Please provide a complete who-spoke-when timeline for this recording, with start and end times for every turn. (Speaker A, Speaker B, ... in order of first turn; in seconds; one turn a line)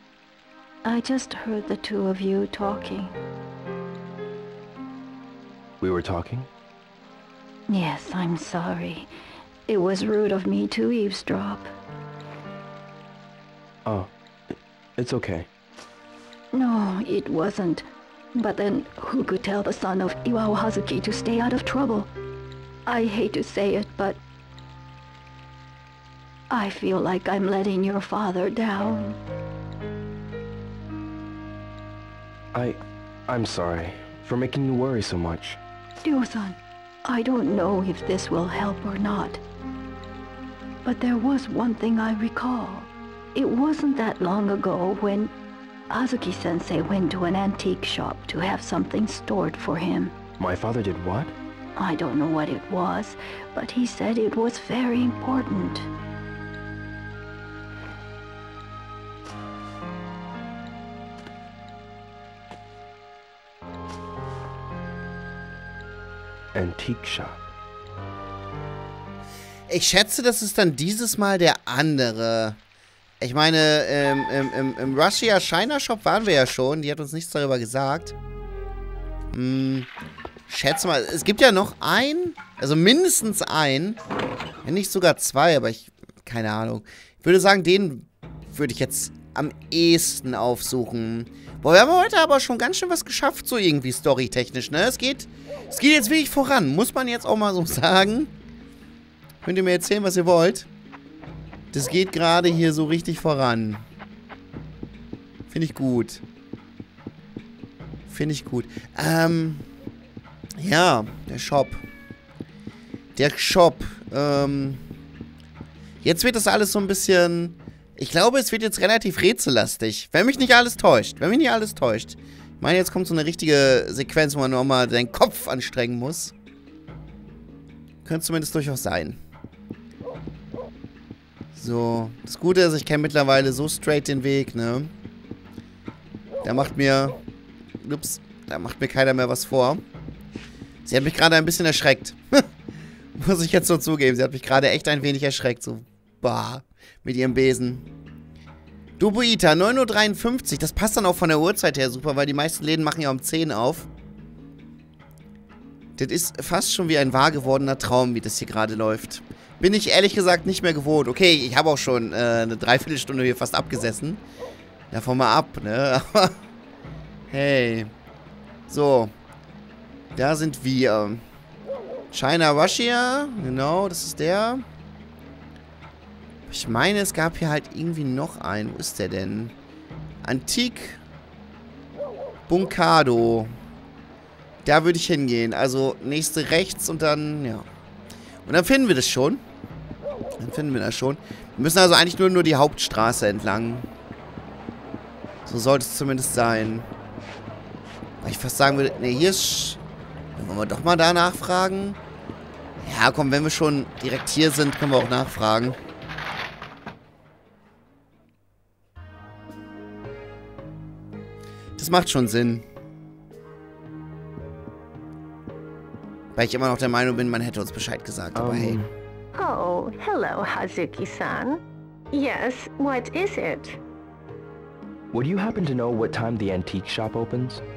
Speaker A: 0.8-3.1
Speaker B: 5.8-6.5
Speaker A: 7.7-9.1
Speaker A: 9.7-11.7
Speaker B: 13.8-15.5
Speaker A: 16.5-22.1
Speaker A: 22.9-24.2
Speaker A: 26.5-29.2
Speaker B: 32.5-35.6
Speaker A: 36.0-39.4
Speaker A: 40.8-45.3
Speaker A: 45.9-50.2
Speaker B: 50.4-51.4
Speaker A: 51.8-55.9
Speaker B: 66.5-67.5
Speaker C: 69.7-72.6
Speaker C: 73.2-78.2
Speaker C: 79.3-79.9
Speaker C: 80.5-84.0
Speaker C: 84.7-98.3
Speaker C: 99.4-100.7
Speaker C: 101.7-103.8
Speaker C: 105.5-106.2
Speaker C: 108.1-109.7
Speaker C: 110.6-111.8
Speaker C: 113.2-114.8
Speaker C: 116.0-126.3
Speaker C: 128.1-129.2
Speaker C: 131.6-134.9
Speaker C: 136.4-137.2
Speaker C: 137.8-139.8
Speaker C: 140.8-142.4
Speaker C: 143.2-147.8
Speaker C: 149.0-153.9
Speaker C: 156.0-164.2
Speaker C: 164.9-166.3
Speaker C: 167.3-167.9
Speaker C: 168.7-169.1
Speaker C: 170.2-171.2
Speaker C: 172.1-174.6
Speaker C: 176.5-179.5
Speaker C: 180.2-181.0
Speaker C: 182.5-183.5
Speaker C: 184.7-187.7
Speaker C: 188.4-189.4
Speaker C: 190.4-193.9
Speaker C: 195.5-196.9
Speaker C: 198.2-199.8
Speaker C: 200.4-202.0
Speaker C: 202.8-205.8
Speaker C: 211.8-212.7
Speaker C: 216.3-218.8
Speaker B: 218.3-218.9
Speaker D: 219.4-221.6
Speaker D: 222.1-223.8
Speaker B: 225.1-227.6